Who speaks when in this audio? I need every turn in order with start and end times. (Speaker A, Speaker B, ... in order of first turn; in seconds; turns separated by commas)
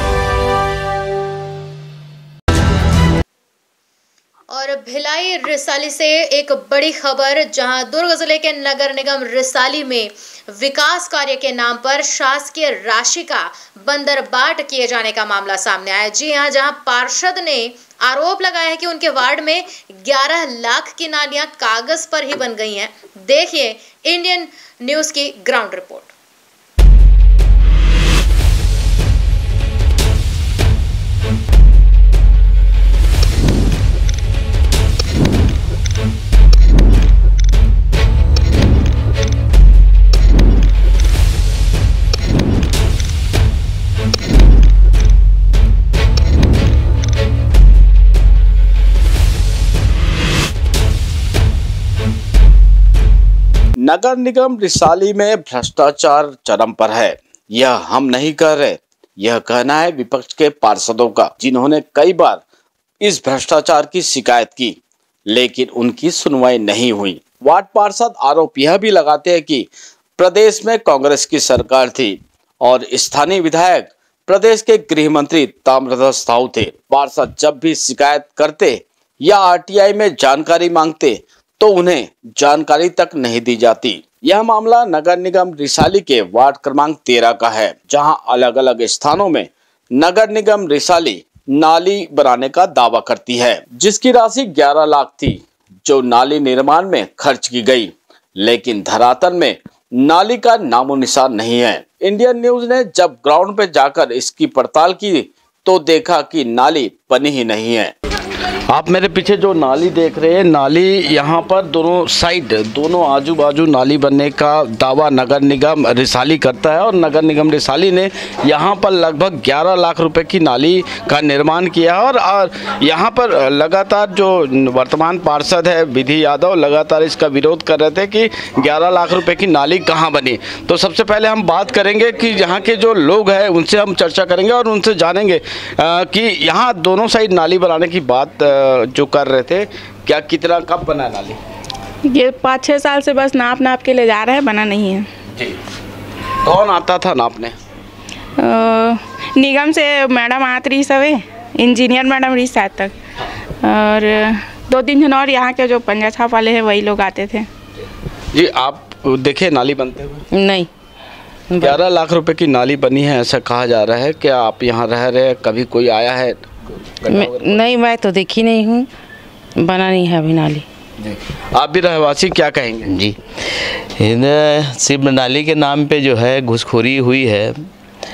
Speaker A: 4.5-26.1, Speaker B: 53.8-62.4, Speaker B: 63.0-64.8, Speaker B: 65.3-69.7, Speaker B: 70.2-97.9, Speaker B: 98.4-107.9, Speaker B: 108.7-141.4, Speaker C: 142.1-145.1, Speaker B: 146.4-147.6, Speaker C: 148.4-152.9, Speaker C: 153.6-157.5, Speaker B: 158.3-160.2, Speaker D: 160.3-160.7, Speaker D: 161.5-161.8, Speaker B: 161.6-166.4, Speaker D: 167.0-168.9, Speaker B: 167.1-167.4, Speaker D: 169.6-170.7, Speaker B: 171.0-172.9, Speaker E: 172.9-177.5